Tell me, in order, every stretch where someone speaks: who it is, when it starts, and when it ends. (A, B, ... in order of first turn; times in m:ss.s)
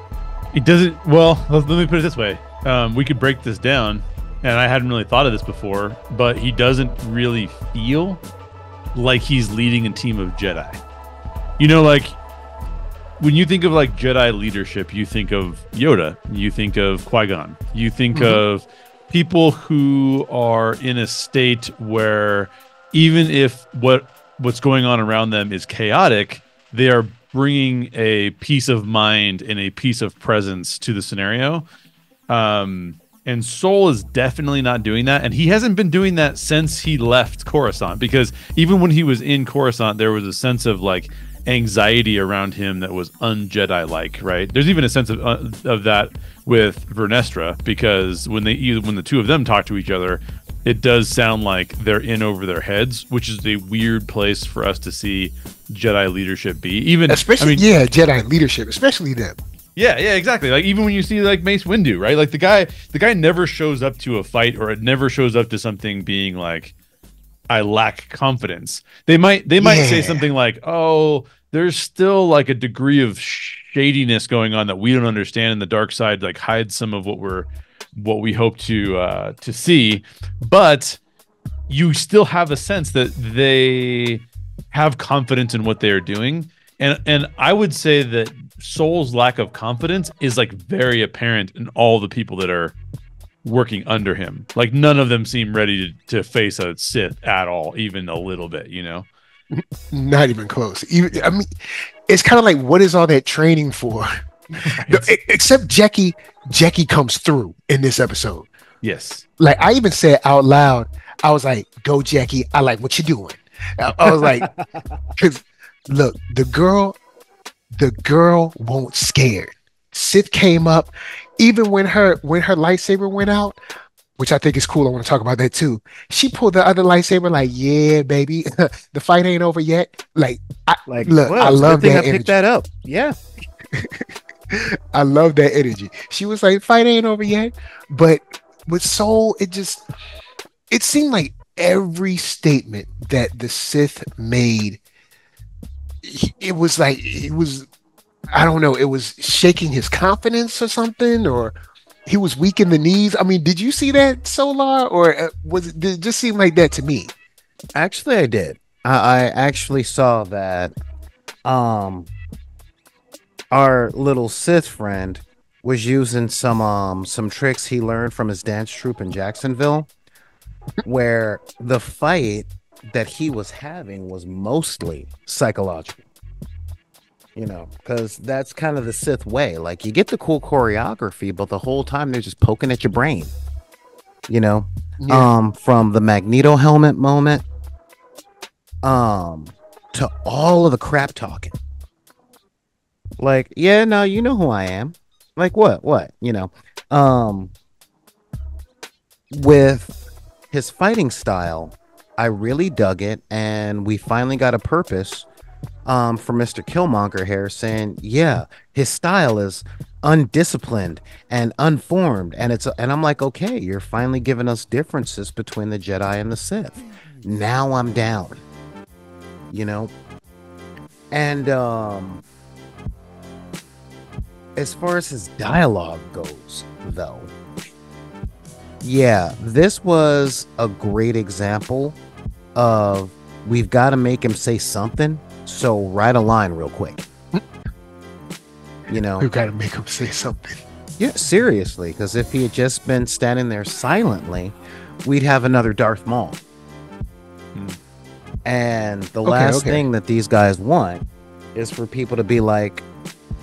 0:00.5-0:08.2 A
0:08.9-0:10.8 A
0:11.6-0:12.2 A
0:13.2-0:31.6 A
0:18.1-0:18.4 B
0:32.3-0:57.6 A
0:57.1-0:59.4 B
0:59.8-1:06.7 A
1:07.5-1:21.0 A
1:09.6-1:10.2 B
1:21.7-1:32.8 A
1:33.4-1:39.1 A
1:39.5-1:44.1 B
1:44.6-1:45.1 A
1:44.6-1:48.5 B
1:48.8-1:49.2 A
1:49.4-1:54.5 B
1:54.1-1:55.0 C
1:55.2-1:57.0 B
1:57.7-2:03.6 B
2:04.2-2:12.3 B
2:10.9-2:13.2 C
2:13.7-2:19.8 B
2:20.7-2:24.8 B
2:26.0-2:27.7 B
2:28.3-2:31.6 B
2:32.1-2:37.1 B
2:37.8-2:40.7 C
2:41.4-2:42.1 C
2:43.5-2:49.9 C
2:50.8-2:56.0 C
2:57.4-3:03.3 C
3:04.3-3:07.4 C
3:05.0-3:05.3 B
3:08.8-3:11.6 C
3:13.2-3:17.5 C
3:19.3-3:20.0 C
3:20.5-3:25.3 C
3:25.8-3:38.4 C
3:39.5-3:39.9 C
3:41.1-3:42.2 C
3:44.6-3:47.3 C
3:48.8-3:52.0 C
3:52.6-3:57.1 C
3:58.9-3:59.3 C
3:59.2-4:00.6 B
4:01.0-4:06.4 C
4:08.4-4:12.9 C
4:09.2-4:09.8 B